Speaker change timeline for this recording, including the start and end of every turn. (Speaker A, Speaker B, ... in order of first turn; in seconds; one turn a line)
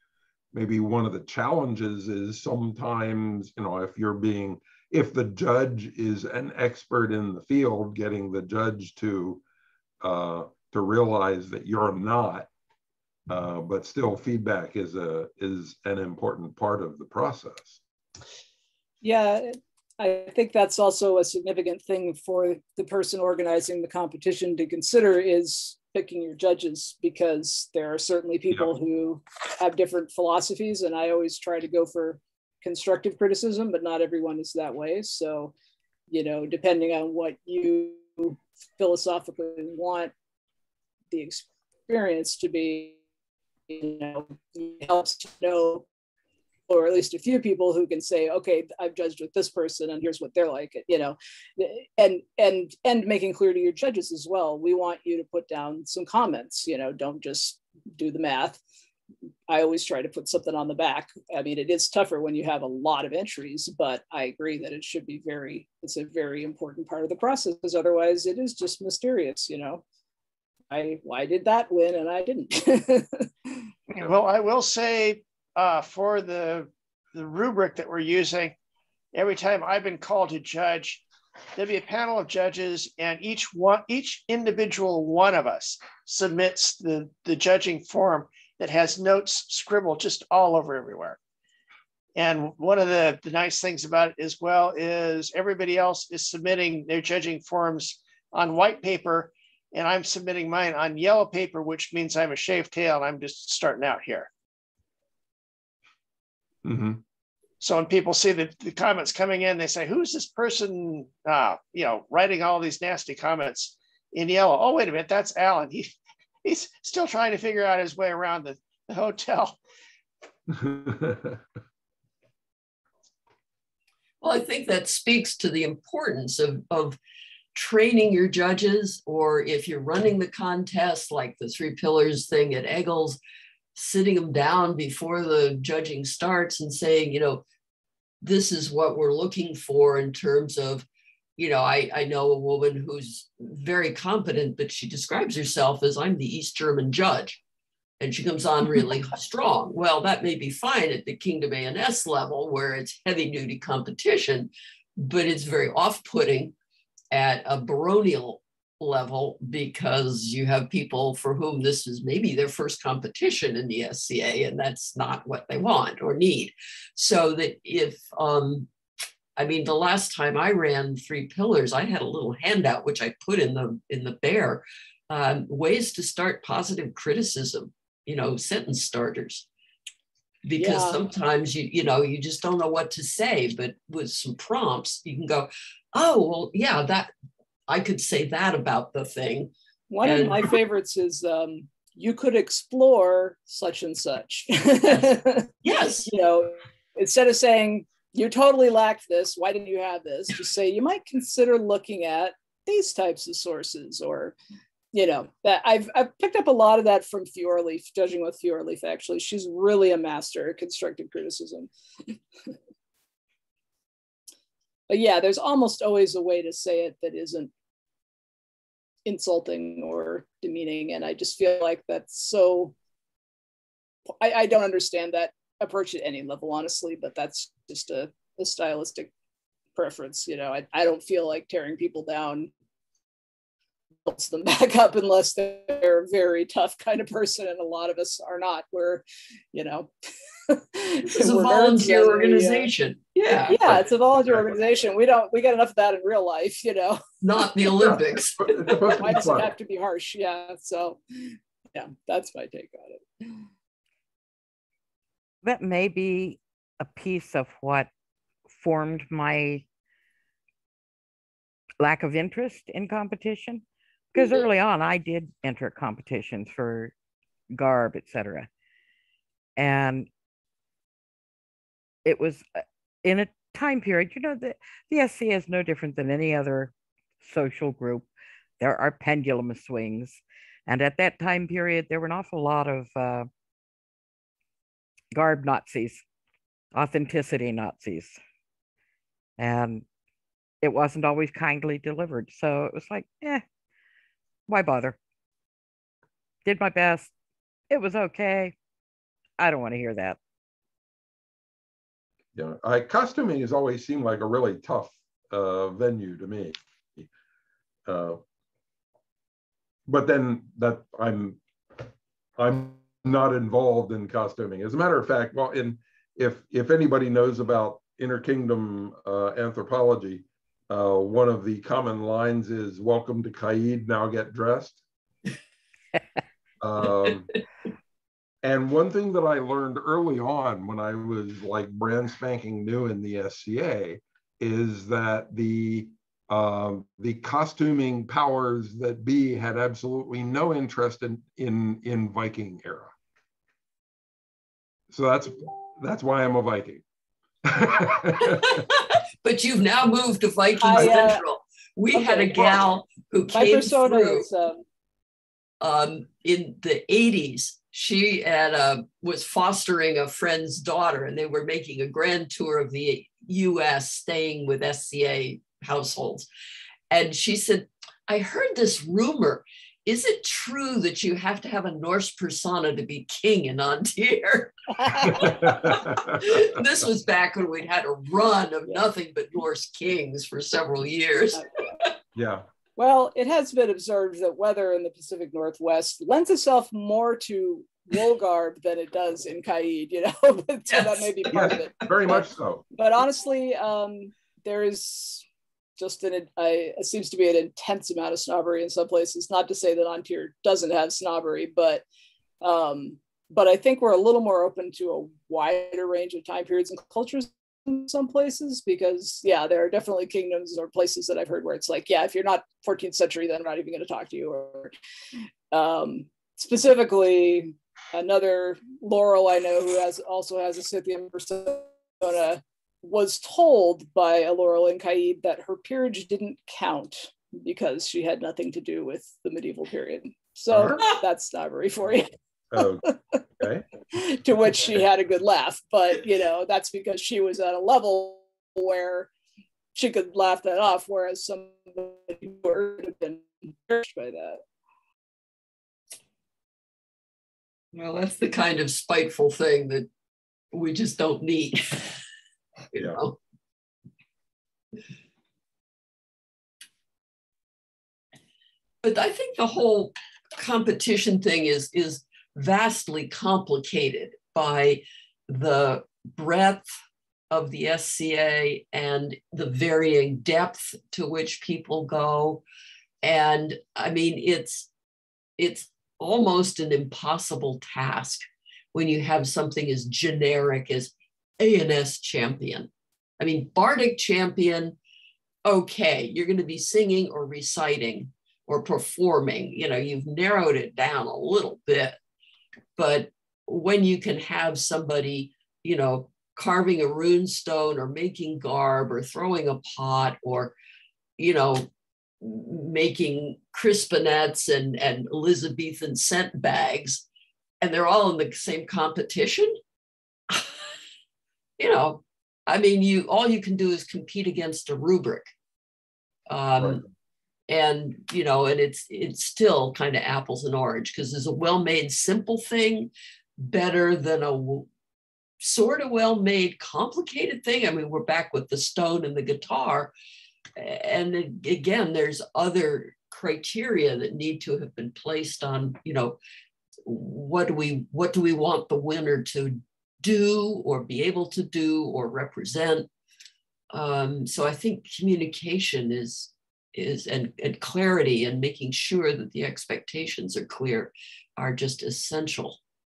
Speaker A: 0.5-9.4
Speaker A: 10.0-12.5
Speaker A: 13.3-17.8
Speaker B: 19.0-35.5
Speaker B: 36.1-40.1
Speaker B: 41.1-43.0
Speaker B: 43.7-45.9
Speaker B: 46.7-58.6
Speaker B: 59.5-69.8
Speaker B: 70.7-73.6
Speaker C: 73.9-78.5
Speaker C: 79.1-81.0
Speaker C: 81.5-91.2
Speaker C: 92.2-104.3
Speaker A: 106.6-107.0
Speaker C: 107.6-115.9
Speaker C: 116.4-119.6
Speaker A: 120.5-121.4
Speaker D: 124.2-127.0
Speaker D: 127.5-133.2
Speaker D: 133.8-137.4
Speaker D: 138.2-140.8
Speaker D: 141.4-147.4
Speaker D: 148.0-156.5
Speaker D: 157.1-168.7
Speaker D: 169.3-179.4
Speaker D: 180.4-187.1
Speaker B: 180.6-181.0
Speaker D: 187.7-189.5
Speaker B: 189.9-195.5
Speaker D: 190.0-190.5
Speaker D: 195.6-196.1
Speaker B: 196.1-204.3
Speaker B: 204.9-212.1
Speaker B: 214.9-217.5
Speaker B: 219.1-222.7
Speaker B: 224.2-229.1
Speaker B: 229.8-232.5
Speaker B: 234.1-239.9
Speaker B: 240.5-242.7
Speaker D: 241.0-243.8
Speaker B: 243.5-247.0
Speaker A: 243.7-244.5
Speaker D: 247.2-249.3
Speaker A: 247.7-249.5
Speaker B: 248.8-253.4
Speaker E: 255.4-257.9
Speaker E: 258.5-259.6
Speaker E: 261.8-266.9
Speaker E: 267.5-268.5
Speaker E: 269.6-270.1
Speaker E: 272.0-272.5
Speaker E: 273.0-278.1
Speaker E: 278.6-283.3
Speaker E: 285.1-286.0
Speaker E: 286.7-288.2
Speaker E: 289.4-289.8
Speaker E: 290.6-293.4
Speaker E: 294.5-295.0
Speaker E: 296.4-297.1
Speaker E: 297.7-298.5
Speaker E: 299.4-300.2
Speaker A: 302.4-307.1
Speaker A: 307.9-308.2
Speaker A: 309.9-311.4
Speaker A: 312.4-324.8
Speaker A: 326.6-327.3
Speaker A: 328.4-342.9
Speaker A: 344.9-346.8
Speaker A: 347.4-348.6
Speaker D: 348.5-354.3
Speaker B: 350.6-351.2
Speaker B: 351.9-352.7
Speaker B: 353.3-354.6
Speaker D: 355.6-366.3
Speaker D: 366.9-381.9
Speaker B: 374.8-375.5
Speaker A: 375.2-376.4
Speaker B: 381.3-381.6
Speaker A: 382.1-382.4
Speaker B: 382.8-392.2
Speaker D: 390.7-391.7
Speaker A: 391.3-392.6
Speaker B: 392.8-395.2
Speaker B: 395.8-401.8
Speaker B: 402.4-414.7
Speaker B: 415.5-433.1
Speaker A: 430.5-430.9
Speaker A: 432.5-432.9
Speaker A: 433.4-433.6
Speaker B: 433.9-439.1
Speaker B: 439.7-444.4
Speaker D: 447.7-449.9
Speaker D: 450.5-451.9
Speaker A: 452.7-453.0
Speaker D: 452.8-453.1
Speaker D: 458.8-466.7
Speaker D: 467.3-472.4
Speaker D: 473.0-474.7
Speaker D: 475.4-482.7
Speaker D: 483.2-484.8
Speaker D: 485.4-492.0
Speaker D: 492.8-500.5
Speaker D: 501.2-501.7
Speaker D: 502.2-507.0
Speaker D: 507.6-509.6
Speaker D: 510.3-510.7
Speaker D: 511.6-515.3
Speaker D: 516.3-516.8
Speaker A: 516.6-516.9
Speaker D: 517.5-524.7
Speaker D: 525.4-529.9
Speaker D: 530.6-536.2
Speaker D: 536.8-542.9
Speaker D: 543.7-552.6